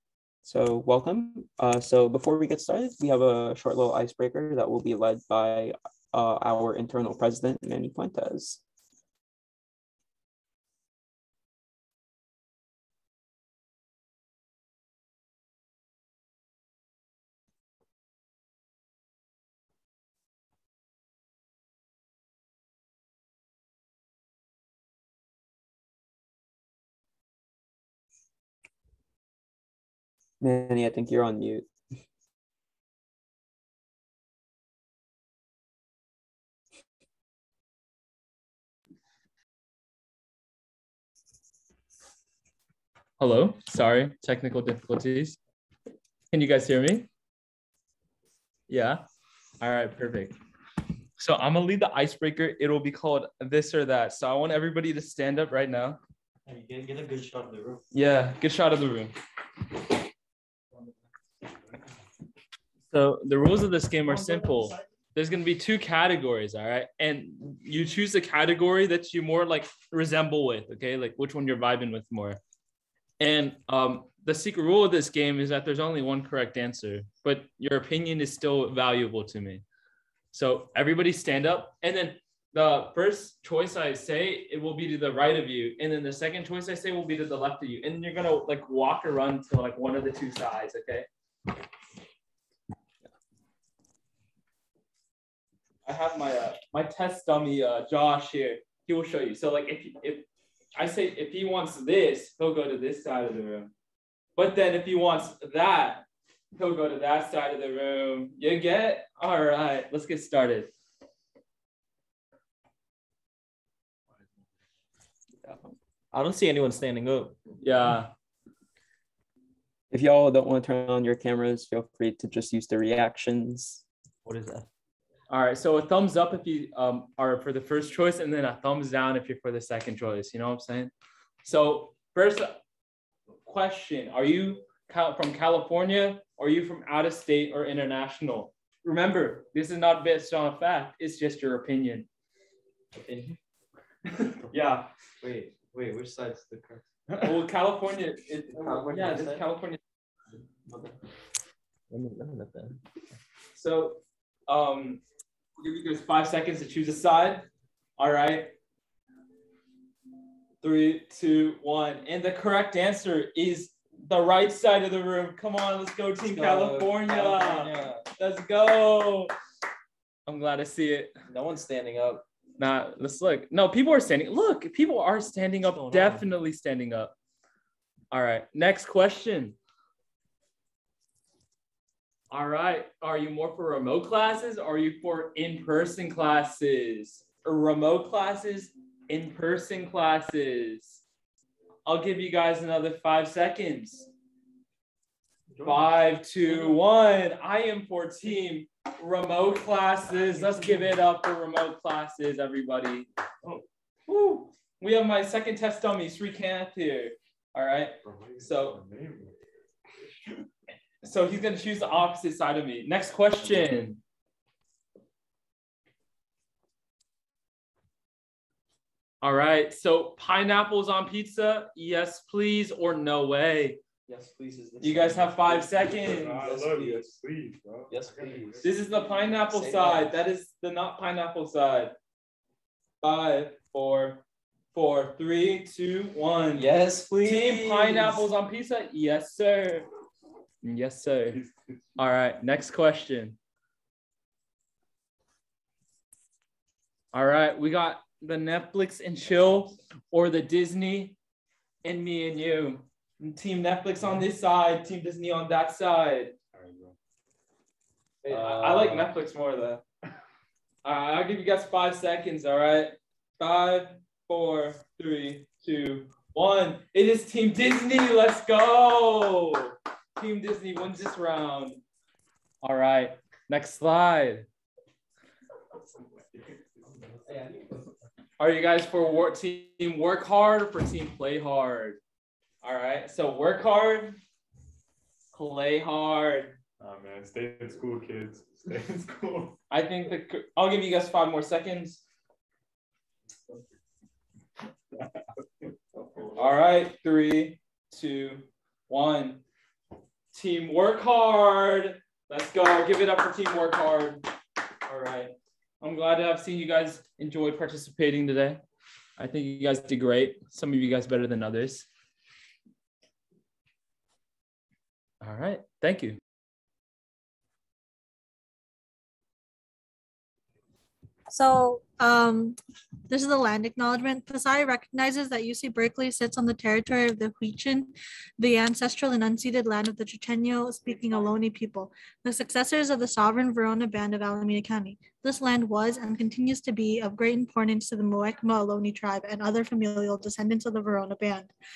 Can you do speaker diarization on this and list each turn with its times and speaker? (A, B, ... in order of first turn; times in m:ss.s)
0:00.4-0:08.6 A
0:30.4-0:31.7 A
0:43.2-0:45.4 B
0:46.3-0:47.1 B
0:48.7-0:49.0 B
0:49.6-0:50.4 B
0:51.2-0:56.0 B
0:56.4-0:57.8 C
0:57.9-0:59.1 B
1:02.9-1:12.4 B
1:04.1-1:04.6 C
1:13.2-1:19.6 B
1:20.3-1:31.1 B
1:35.8-1:43.7 B
1:44.4-1:50.7 B
1:56.1-1:57.4 C
1:57.6-1:58.1 B
1:59.9-2:03.8 A
2:04.2-2:04.6 C
2:05.3-2:10.9 B
2:11.4-2:12.6 B
2:13.4-2:22.1 B
2:23.0-2:23.4 C
2:24.4-2:26.8 C
2:27.2-2:29.8 B
2:28.5-2:29.4 C
2:30.7-2:30.9 C
2:31.9-2:32.8 C
2:33.5-2:35.0 B
2:35.6-2:38.5 B
2:40.6-2:49.3 B
2:46.2-2:48.1 C
2:50.2-2:51.1 B
2:51.3-2:52.2 C
2:52.6-2:57.1 B
2:55.7-2:56.2 C
2:58.1-2:59.6 B
3:02.3-3:11.0 B
3:11.8-3:14.1 B
3:15.6-3:15.8 C
3:15.6-3:23.1 B
3:16.4-3:16.7 C
3:24.1-3:28.8 B
3:28.0-3:29.4 D
3:31.0-3:34.0 B
3:39.2-3:43.8 B
3:44.1-3:45.7 C
3:44.8-3:47.0 B
3:45.8-3:48.7 D
3:47.9-3:48.6 C
3:48.6-3:51.9 B
3:49.3-3:50.2 C
3:53.0-3:54.2 B
3:54.7-3:59.9 B
3:56.5-3:58.2 C
4:00.6-4:01.4 B
4:02.0-4:03.4 B
4:07.1-4:11.2 B
4:11.8-4:16.4 B
4:16.5-4:17.0 D
4:18.2-4:19.1 C
4:18.3-4:19.8 B
4:20.8-4:31.8 B
4:32.6-4:34.5 B
4:37.3-4:37.7 C
4:38.4-4:42.0 B
4:42.6-4:44.2 B
4:45.3-4:46.6 B
4:46.8-4:49.6 D
4:49.7-4:52.0 B
4:56.3-4:59.4 B
5:00.3-5:04.2 B
5:04.8-5:08.6 B
5:09.2-5:11.9 B
5:15.2-5:16.2 B
5:21.3-5:41.5 E